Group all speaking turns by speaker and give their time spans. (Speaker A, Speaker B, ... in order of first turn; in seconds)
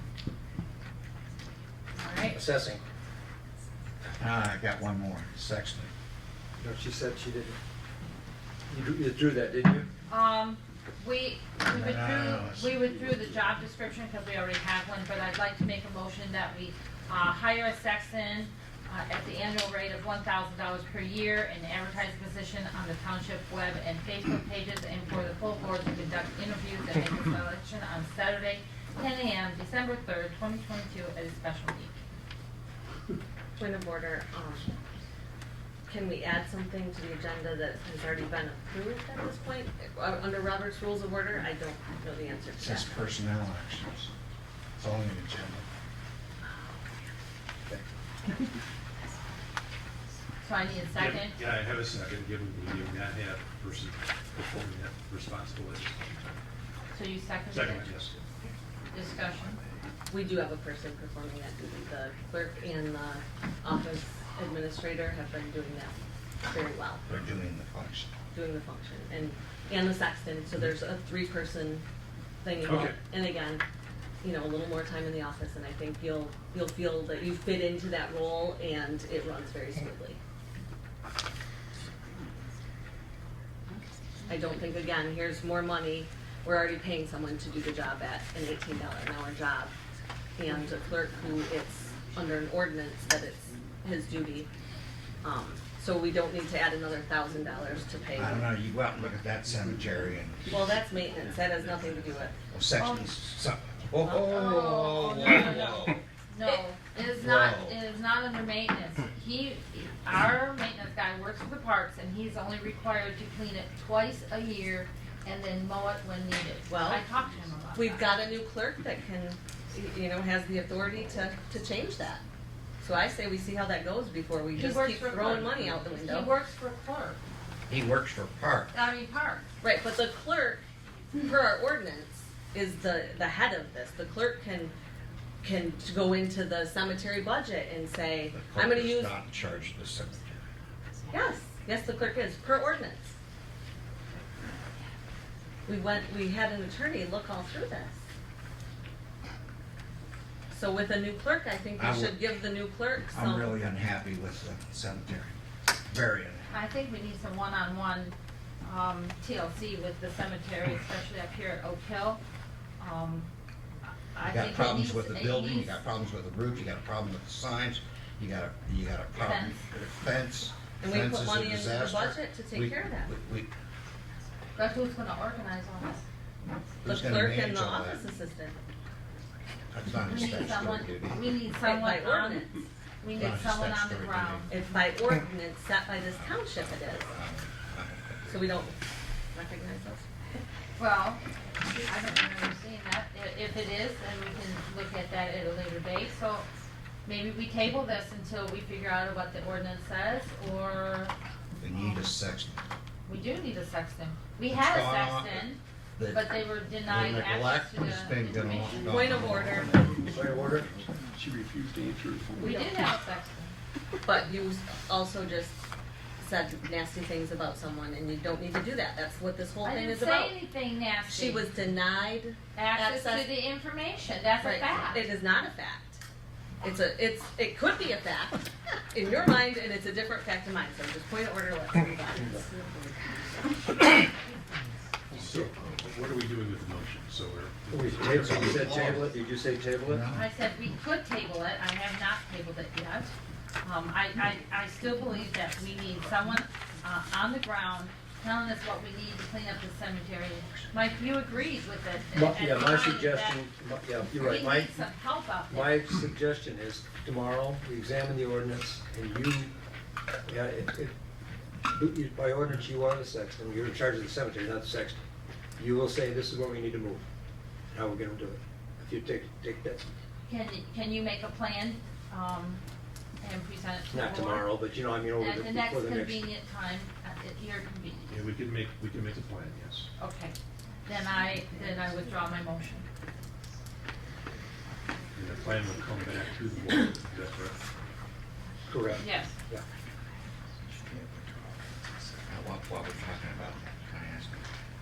Speaker A: 1.9-2.4, 10.1-31.9, 50.4-51.4, 56.9-57.9, 58.9-59.6, 102.8-103.1, 104.1-118.2, 124.5-127.2, 128.7-129.4, 156.5-162.2, 162.8-163.3, 164.1-165.8, 169.1-169.6, 174.5-176.0, 180.1-184.6, 190.8-191.2, 191.8-196.5, 197.0-201.1, 201.7-202.0, 203.1-209.4, 212.3-213.6, 219.6-221.5, 222.5-225.0, 240.1-243.1, 243.6-253.4, 254.1-255.8, 270.2-272.6, 273.2-278.1, 280.0-282.9, 289.0-289.4
Speaker B: 2.3-2.8, 6.6-7.6, 8.7-9.9, 47.7-47.9, 210.1-210.7, 237.7-240.0, 252.1-254.7, 255.5-259.5, 260.2-260.9, 261.6-265.0, 265.6-267.0, 267.7-269.9, 273.9-276.3, 288.7-289.6
Speaker C: 4.2-5.9, 11.7-12.8, 42.6-44.1, 44.8-45.7, 67.1-68.1, 98.2-100.6, 102.5-106.0, 107.2-107.8, 127.7-128.7, 138.3-140.4, 151.8-152.2, 153.1-156.6, 164.3-173.5, 176.8-178.0, 179.7-181.2, 183.1-184.5, 186.1-188.5, 201.6-202.6, 204.5-210.0, 238.1-239.1, 239.8-240.3, 290.7-294.5
Speaker D: 33.6-34.7, 35.9-43.0, 60.1-67.0, 68.3-71.8, 72.4-73.6, 74.2-80.2, 84.3-89.7, 90.3-94.5, 95.2-98.5, 100.5-102.4, 104.0-104.5, 116.7-117.0, 117.7-122.2, 122.8-126.3, 129.6-134.7, 135.4-139.2, 141.1-143.1, 145.7-148.0, 150.5-153.6, 170.8-173.1, 176.8-178.6, 181.6-182.6, 184.5-187.1, 188.2-188.8, 189.3-190.1, 208.8-209.8, 214.0-215.6, 216.2-220.3, 221.1-223.3, 224.4-226.0, 226.6-233.3
Speaker E: 50.9-56.0, 57.5-58.2, 72.7-72.9, 235.1-239.0, 278.1-279.9, 285.1-287.6
Speaker F: 209.9-212.7